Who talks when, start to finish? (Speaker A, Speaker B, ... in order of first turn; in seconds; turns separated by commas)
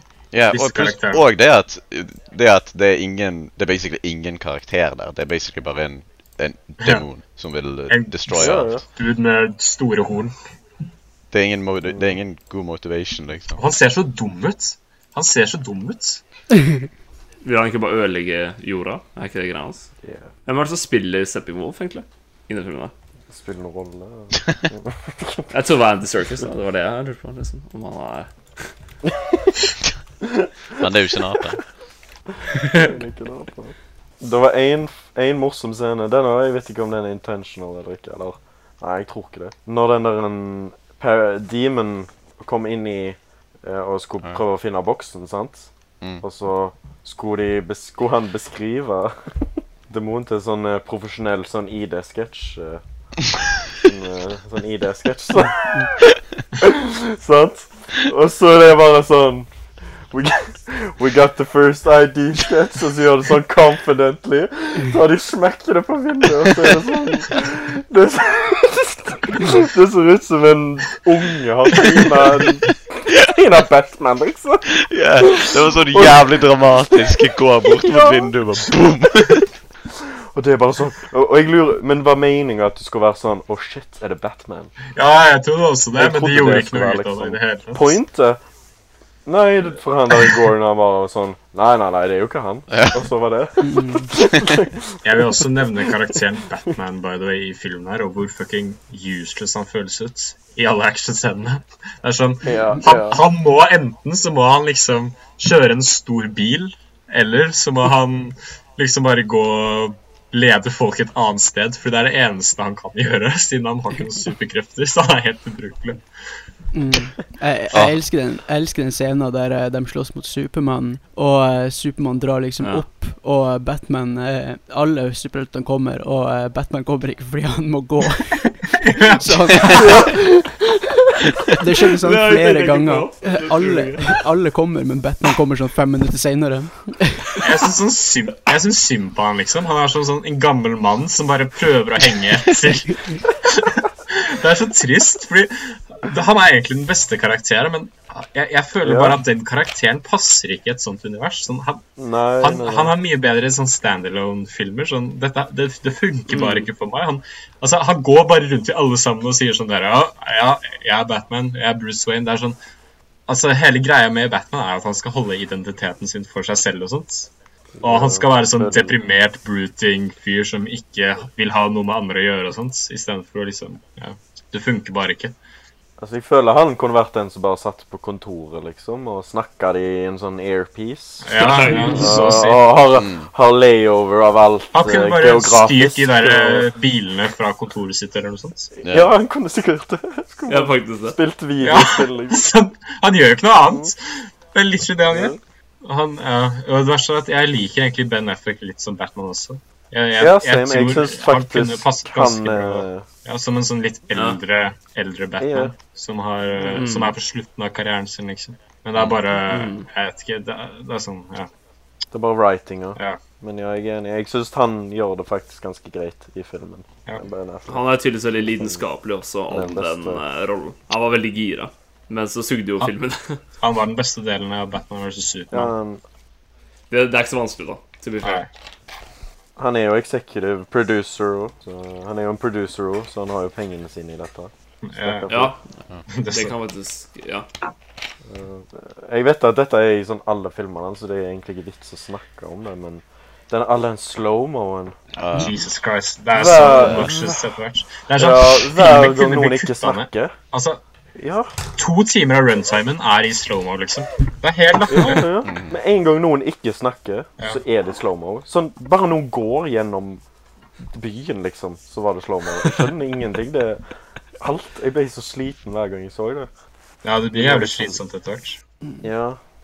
Speaker A: 0.3-8.8, Speaker B: 0.5-1.2, Speaker B: 7.9-10.3, Speaker C: 8.3-8.8, Speaker A: 11.3-13.6, Speaker C: 11.9-12.2, Speaker B: 13.6-16.2, Speaker D: 17.4-19.9, Speaker C: 20.0-20.3, Speaker D: 20.5-22.9, Speaker C: 23.3-25.5, Speaker D: 25.5-28.7, Speaker C: 29.1-29.5, Speaker C: 30.2-30.9, Speaker A: 30.8-31.6, Speaker D: 32.6-32.9, Speaker C: 32.7-49.4, Speaker C: 49.9-52.8, Speaker C: 53.8-55.8, Speaker C: 56.6-59.5, Speaker C: 60.1-76.4, Speaker A: 74.7-79.5, Speaker C: 76.9-78.3, Speaker C: 79.9-84.7, Speaker B: 85.0-88.0, Speaker C: 86.0-88.4, Speaker C: 89.3-96.1, Speaker A: 92.7-93.0, Speaker E: 93.6-94.1, Speaker B: 95.0-116.0, Speaker C: 102.4-103.2, Speaker E: 116.7-130.5, Speaker B: 128.8-129.9, Speaker C: 129.7-130.4, Speaker E: 131.4-137.4, Speaker D: 132.0-134.2, Speaker B: 137.4-151.8, Speaker C: 148.8-149.2, Speaker C: 152.0-152.9, Speaker B: 152.4-162.6, Speaker D: 156.3-156.7, Speaker B: 163.3-167.3, Speaker C: 167.8-169.0, Speaker B: 167.8-175.4, Speaker C: 176.0-181.3, Speaker B: 181.2-182.8, Speaker D: 181.4-182.3, Speaker C: 181.8-186.7, Speaker A: 183.0-183.3, Speaker B: 184.7-188.7, Speaker C: 188.8-192.4, Speaker A: 188.8-189.1, Speaker D: 190.5-191.2, Speaker B: 191.6-211.5, Speaker C: 193.7-193.9, Speaker C: 195.1-195.4, Speaker C: 200.2-203.1, Speaker D: 204.1-204.4, Speaker C: 205.4-205.7, Speaker D: 206.6-207.2, Speaker D: 209.5-209.9, Speaker C: 212.1-217.9, Speaker D: 217.7-223.4, Speaker C: 218.6-218.8, Speaker C: 219.5-220.2, Speaker B: 223.6-225.7, Speaker C: 225.5-226.0, Speaker D: 226.9-228.4, Speaker B: 228.2-228.5, Speaker C: 229.6-235.5, Speaker B: 234.8-235.4, Speaker D: 235.3-235.6, Speaker B: 236.1-236.6, Speaker D: 236.3-237.5, Speaker C: 238.3-245.0, Speaker A: 245.2-245.6, Speaker B: 245.3-250.8, Speaker C: 246.3-247.4, Speaker A: 246.6-247.1, Speaker C: 248.2-250.3, Speaker C: 251.2-251.5, Speaker B: 251.8-255.3, Speaker C: 254.9-260.2, Speaker A: 255.4-255.8, Speaker C: 260.8-263.8, Speaker C: 264.4-266.5, Speaker B: 267.0-268.6, Speaker C: 267.4-268.0, Speaker C: 269.0-269.4